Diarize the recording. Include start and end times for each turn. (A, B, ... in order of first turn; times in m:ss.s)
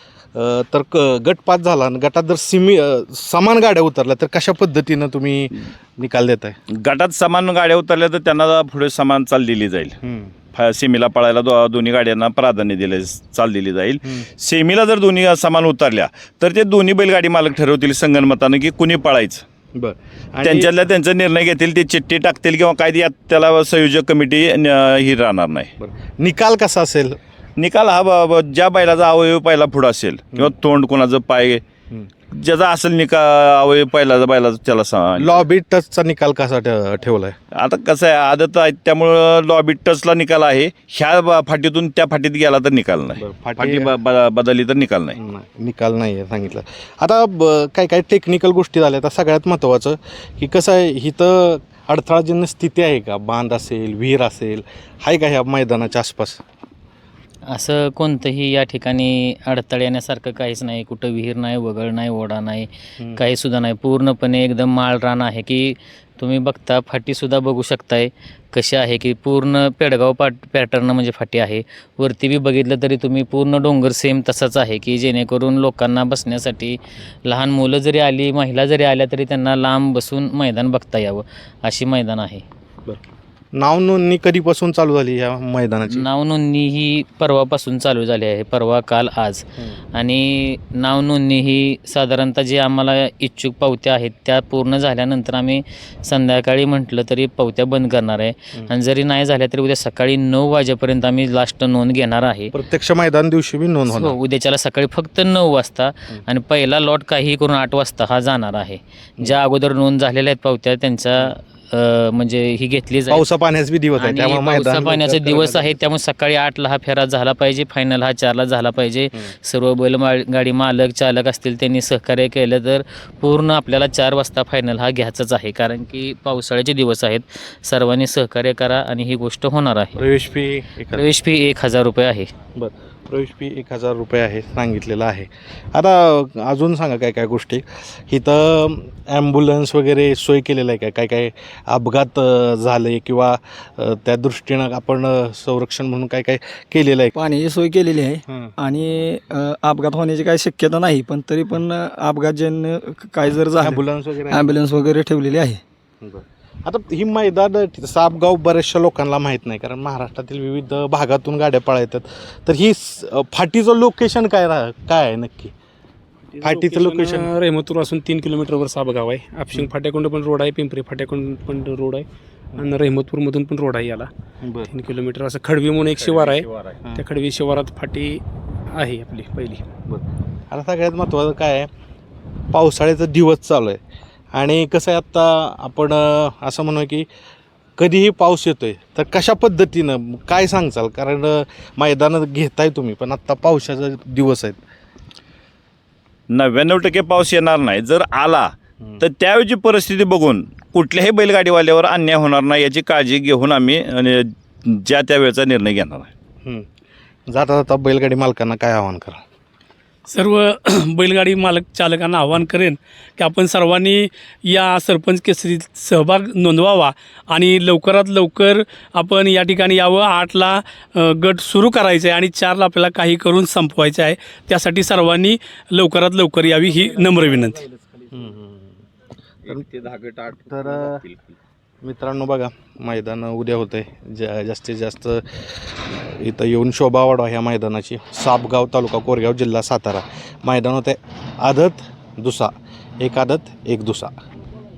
0:00.3-0:06.6 A
0:06.7-0:09.9 B
0:10.0-0:10.3 A
0:10.5-0:19.4 B
0:19.8-0:20.7 A
0:20.4-0:25.7 B
0:25.8-0:27.2 A
0:27.6-0:31.6 B
0:32.3-0:35.4 B
0:35.2-0:37.3 A
0:37.5-0:45.2 B
0:43.2-0:43.9 A
0:45.2-0:56.4 A
0:57.5-1:22.4 C
1:23.6-1:26.1 A
1:25.9-1:42.5 C
1:42.5-1:44.1 A
1:43.9-1:53.3 C
1:53.1-1:55.9 A
1:54.0-2:10.0 C
2:10.0-2:11.0 A
2:10.9-2:12.3 C
2:12.6-2:27.1 A
2:27.1-2:35.6 D
2:33.6-2:34.6 A
2:36.0-2:45.5 A
2:46.3-2:54.1 E
2:46.4-2:47.3 A
2:54.4-2:54.7 A
2:54.6-2:58.2 E
2:56.1-2:56.4 B
2:58.8-2:59.7 E
2:59.9-3:01.7 A
3:02.5-3:03.8 A
3:04.3-3:07.1 A
3:07.8-3:14.6 A
3:16.3-3:26.1 B
3:27.3-3:29.2 A
3:30.1-3:47.6 F
3:48.1-3:48.8 A
3:49.5-3:51.2 B
3:50.5-3:51.0 A
3:51.8-4:04.2 A